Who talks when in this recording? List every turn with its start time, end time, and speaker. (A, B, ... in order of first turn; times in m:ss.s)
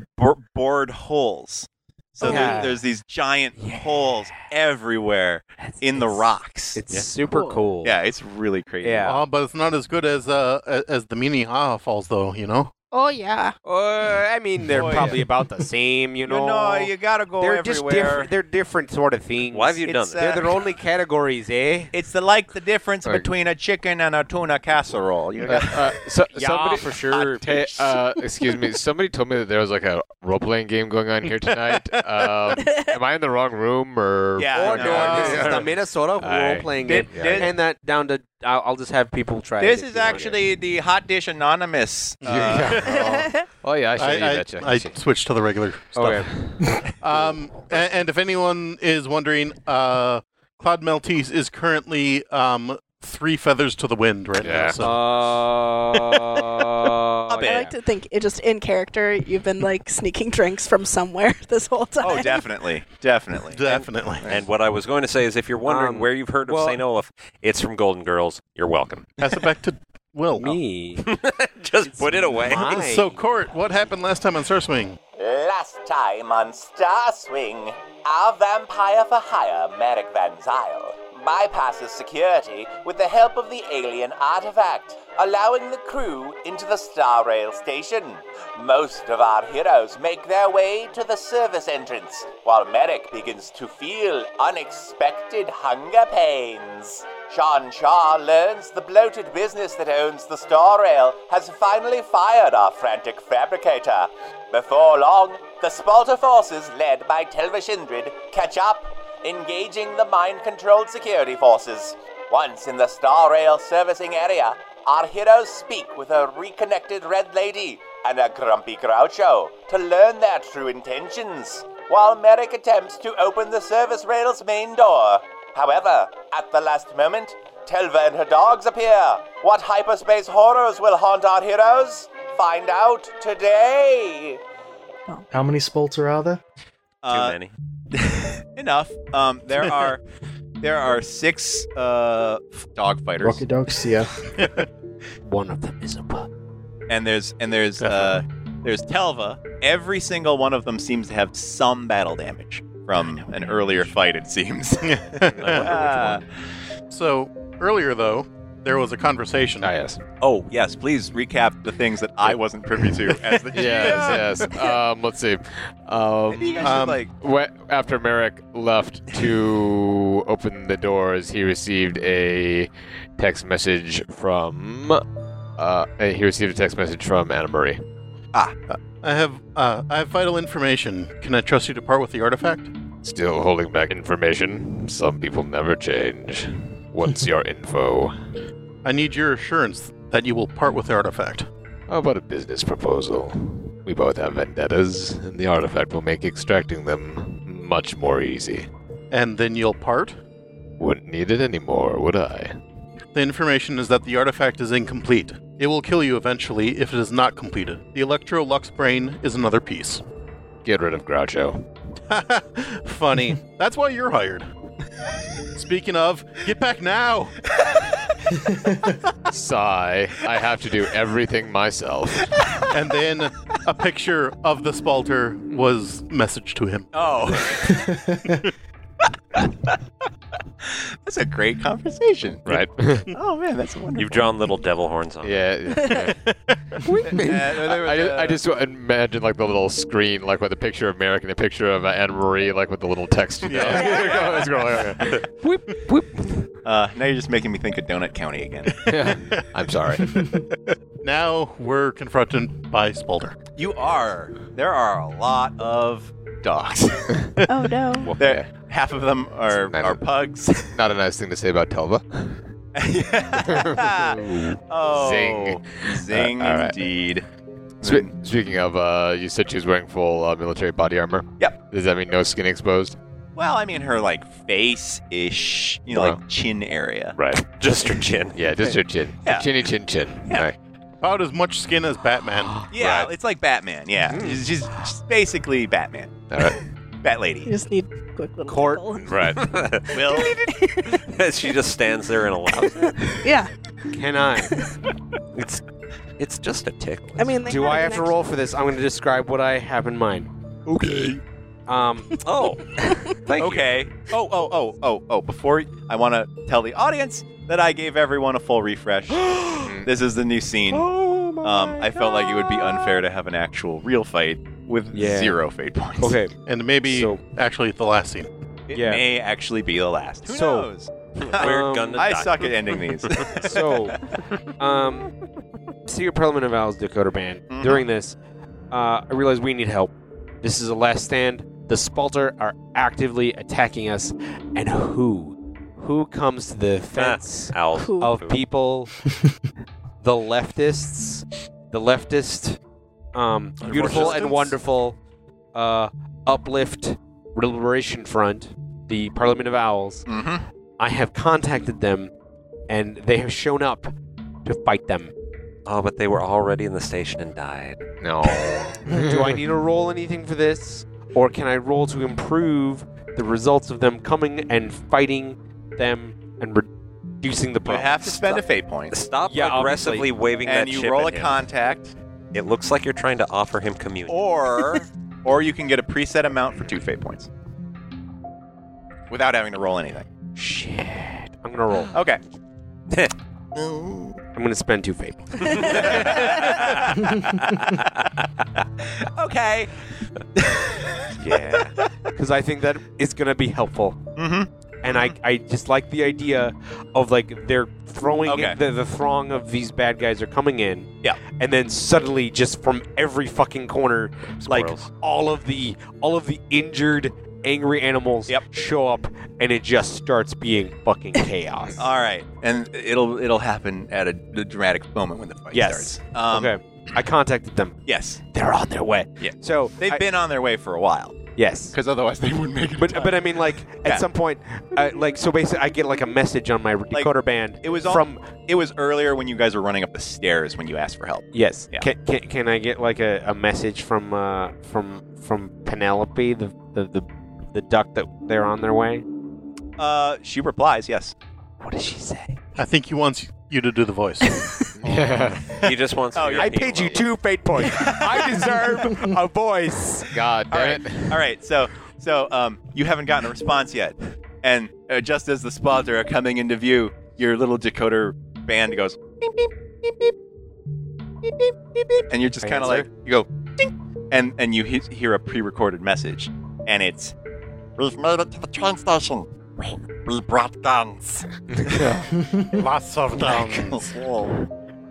0:00.2-0:06.8 A
0:02.2-0:02.8 B
0:02.2-0:02.6 C
0:03.6-0:04.2 B
0:05.6-0:06.2 B
0:06.8-0:08.0 B
0:07.3-0:07.6 C
0:07.8-0:09.2 A
0:08.8-0:09.2 B
0:09.1-0:12.7 D
0:12.9-0:13.6 C
0:13.6-0:21.9 B
0:14.7-0:15.2 A
0:14.8-0:15.2 E
0:16.3-0:18.3 A
0:19.5-0:20.4 F
0:19.9-0:20.6 A
0:21.9-0:26.0 A
0:23.0-0:23.3 E
0:25.5-0:37.5 E
0:26.3-0:27.8 B
0:31.4-0:32.4 D
0:32.6-0:33.0 C
0:34.4-0:35.6 A
0:34.5-0:40.4 B
0:36.8-0:37.5 A
0:39.6-0:42.8 A
0:42.2-0:43.2 D
0:42.2-0:44.9 E
0:42.9-0:43.5 C
0:44.0-0:55.1 D
0:46.0-0:46.3 B
0:46.0-0:46.9 E
0:54.4-0:54.8 E
0:54.8-0:57.7 B
0:57.3-0:57.7 A
0:57.4-1:02.5 C
1:02.0-1:03.6 A
1:03.5-1:04.3 D
1:03.6-1:09.2 F
1:05.6-1:06.8 B
1:09.2-1:10.6 D
1:10.4-1:11.1 B
1:11.0-1:12.7 F
1:11.9-1:13.2 B
1:12.5-1:15.0 D
1:15.2-2:14.4 G
2:15.3-2:16.4 H
2:17.0-2:17.4 A
2:17.1-2:17.5 F
2:17.9-2:20.0 A
2:20.6-2:23.4 A
2:23.2-2:24.2 H
2:24.4-2:24.7 D
2:25.2-2:26.3 B
2:26.9-2:36.2 A
2:27.8-2:28.2 D
2:34.8-2:35.8 D
2:35.4-2:36.0 F
2:35.5-2:35.9 E
2:36.9-2:39.7 D
2:39.6-2:40.0 E
2:40.2-2:44.8 A
2:42.3-2:55.0 E
2:43.6-2:44.2 D
2:46.3-2:47.1 A
2:46.6-2:47.0 D
2:55.6-2:57.8 E
2:58.7-3:02.7 D
3:03.0-3:08.2 E
3:08.8-3:11.5 D
3:11.9-3:18.7 E
3:19.1-3:20.2 D
3:20.8-3:22.6 E
3:23.1-3:30.0 D
3:30.6-3:31.6 E
3:32.1-3:34.5 D
3:35.5-3:37.4 D
3:38.3-3:39.0 H
3:39.3-3:42.4 E
3:42.4-3:42.6 A
3:42.7-3:47.6 D
3:46.9-3:47.9 A
3:47.6-3:48.3 H
3:49.3-3:49.8 A
3:50.6-3:54.3 A
3:52.5-3:53.1 E
3:54.0-3:55.5 F
3:55.2-3:56.2 E
3:55.7-3:56.1 C
3:56.8-4:06.5 E
3:57.1-3:58.4 A
4:03.4-4:04.7 D
4:03.9-4:04.4 A
4:06.6-4:09.0 A
4:08.7-4:10.3 E
4:11.0-4:13.4 D
4:13.6-4:17.3 A
4:17.2-4:17.4 E
4:17.5-4:18.2 C
4:18.0-4:18.5 E
4:18.2-4:20.8 A
4:19.5-4:20.0 E
4:20.7-4:22.4 E
4:22.8-4:27.2 A
4:23.4-4:26.8 E
4:27.8-4:28.1 A
4:27.8-4:33.0 E
4:33.4-4:37.2 A
4:35.9-4:36.2 E
4:37.2-4:37.5 E
4:37.4-4:38.4 F
4:38.3-4:40.6 E
4:39.2-4:39.5 A
4:41.0-4:42.6 D
4:42.5-4:43.1 E
4:42.7-4:46.5 A
4:46.3-4:46.6 E
4:47.0-4:47.5 A
4:47.4-4:49.3 C
4:48.5-4:48.8 B
4:49.0-4:49.4 E
4:49.4-4:50.2 F
4:49.9-4:50.3 A
4:49.9-4:51.1 C
4:50.9-4:53.2 F
4:52.5-4:53.5 C
4:53.9-4:54.6 B
4:54.4-4:54.7 C
4:55.4-4:55.6 F
4:56.2-4:57.8 F
4:57.2-4:58.2 C
4:57.5-5:00.3 B
5:01.7-5:02.2 B
5:02.2-5:02.7 F
5:02.8-5:03.2 C
5:03.3-5:03.9 F
5:03.4-5:10.9 A
5:09.6-5:09.9 E
5:10.7-5:11.9 B
5:11.4-5:16.2 A
5:14.9-5:15.4 B
5:16.0-5:16.3 B
5:16.5-5:18.3 D
5:16.9-5:17.2 B
5:18.7-5:23.9 A
5:18.7-5:19.0 B
5:20.3-5:20.7 B
5:21.2-5:23.4 F
5:21.3-5:22.0 B
5:23.3-5:24.0 B
5:24.6-5:25.1 B
5:25.9-5:28.2 B
5:27.5-5:27.8 A
5:28.7-5:38.9 B
5:37.0-5:38.4 F
5:37.7-5:38.2 C
5:40.0-5:42.6 B
5:43.1-5:45.0 B
5:43.6-5:44.5 F
5:43.9-5:44.3 A
5:45.5-5:50.1 B
5:50.1-5:50.4 A
5:50.8-5:52.1 B
5:52.7-5:53.9 B
5:54.4-5:55.1 B
5:55.7-5:57.8 F
5:58.0-5:59.4 E
5:58.9-6:06.7 B
6:07.2-6:08.4 B
6:07.6-6:09.0 A
6:08.9-6:11.4 F
6:09.3-6:10.1 B
6:10.4-6:11.9 A
6:12.3-6:14.3 F
6:14.1-6:17.3 A
6:19.1-6:20.0 A
6:20.4-6:21.9 B
6:21.9-6:22.2 A
6:23.6-6:24.2 A
6:24.4-6:26.4 B
6:25.5-6:27.8 F
6:25.7-6:27.1 A
6:27.8-6:29.7 A
6:30.4-6:31.9 A
6:31.2-6:31.8 F
6:32.2-6:34.0 B
6:34.2-6:35.2 A
6:34.8-6:51.8 B
6:38.3-6:38.6 A
6:44.4-6:44.9 F
6:51.8-6:56.5 A
6:55.5-7:00.1 B
6:57.9-6:58.2 A
6:59.2-7:01.2 A
7:01.4-7:01.8 B
7:01.7-7:04.1 A
7:02.7-7:08.3 B
7:06.9-7:11.9 A
7:11.3-7:19.0 B
7:19.8-7:21.1 A
7:21.6-7:22.4 B
7:22.6-7:24.4 D
7:24.8-7:25.7 E
7:25.5-7:27.0 F
7:26.1-7:27.0 A
7:26.4-7:30.1 B
7:27.6-7:28.6 A
7:30.1-7:31.2 E
7:30.5-7:40.1 A
7:41.2-7:47.1 A
7:42.4-7:42.9 B
7:48.5-7:49.2 A
7:51.5-7:52.1 E
7:52.1-7:52.6 H
7:52.6-7:53.9 D
7:53.3-7:54.4 A